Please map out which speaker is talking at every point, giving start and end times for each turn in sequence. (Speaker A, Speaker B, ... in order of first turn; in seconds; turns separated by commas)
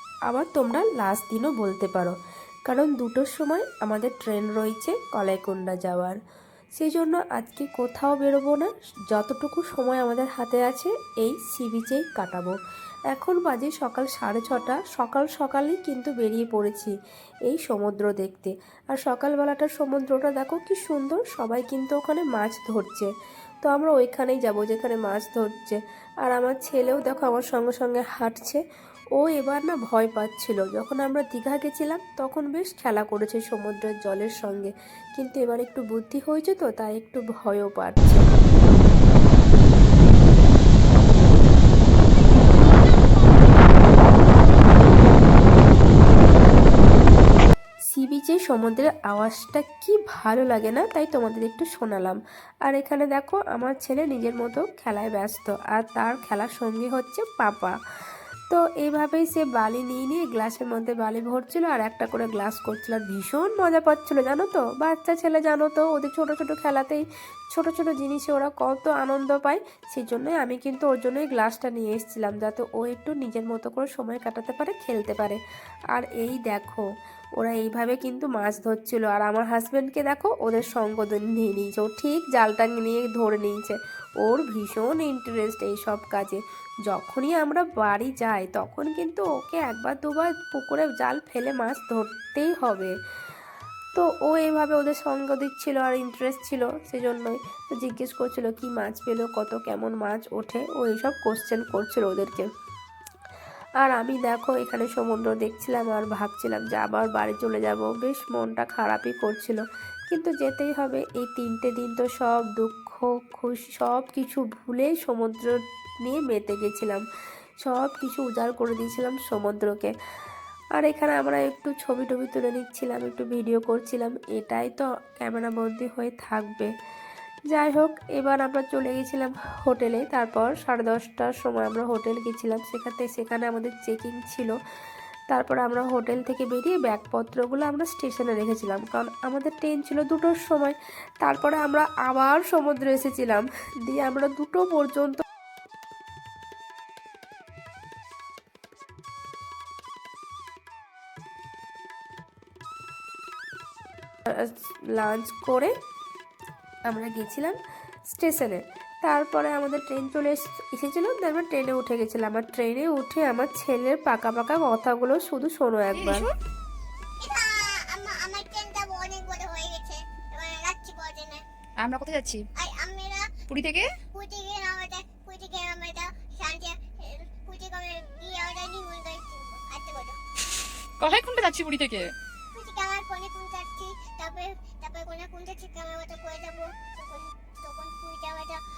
Speaker A: 0.3-2.1, Speaker A: 2.7-6.2, Speaker A: 6.8-12.5, Speaker A: 13.1-16.9, Speaker A: 17.5-23.1, Speaker A: 23.6-28.6, Speaker A: 29.2-38.2, Speaker B: 42.5-43.3, Speaker B: 44.1-44.4, Speaker A: 47.9-57.7, Speaker A: 58.5-75.4, Speaker A: 75.9-76.8, Speaker A: 77.4-92.9, Speaker A: 93.9-102.5, Speaker A: 103.8-117.0, Speaker A: 117.6-119.9, Speaker A: 120.8-126.7, Speaker A: 127.5-134.5, Speaker A: 135.3-145.2, Speaker A: 154.3-155.7, Speaker A: 156.9-157.6, Speaker A: 158.1-166.3, Speaker B: 167.2-171.4, Speaker C: 171.8-172.4, Speaker B: 172.6-173.3, Speaker C: 173.5-173.9, Speaker B: 174.1-180.2, Speaker C: 181.0-182.1, Speaker B: 182.5-188.6